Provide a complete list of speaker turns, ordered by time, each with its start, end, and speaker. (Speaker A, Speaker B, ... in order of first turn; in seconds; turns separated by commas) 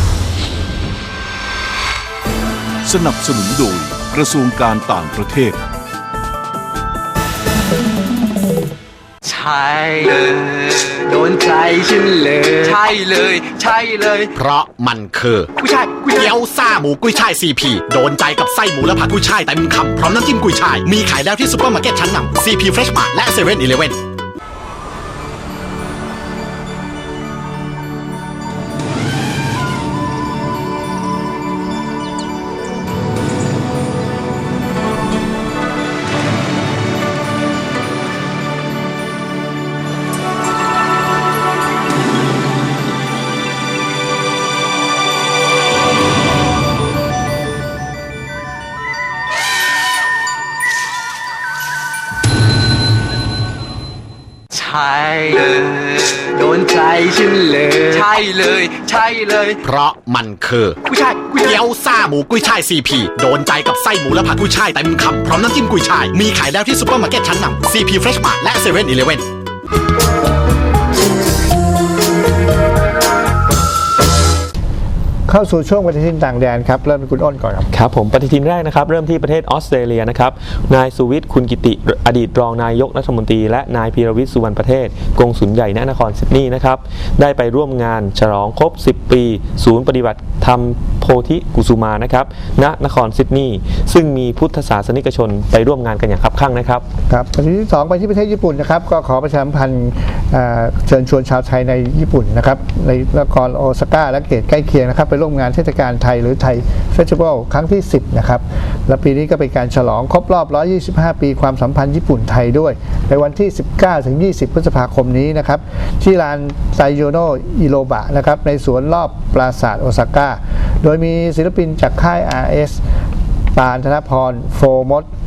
Speaker A: 2.9-5.5, Speaker B: 9.2-14.3, Speaker C: 14.3-15.5, Speaker B: 15.6-16.1, Speaker C: 16.1-24.0, Speaker B: 54.5-59.6, Speaker C: 59.6-69.3, Speaker B: 60.9-61.5, Speaker D: 75.3-77.7, Speaker E: 77.7-96.8, Speaker D: 97.1-122.8, Speaker D: 123.5-125.1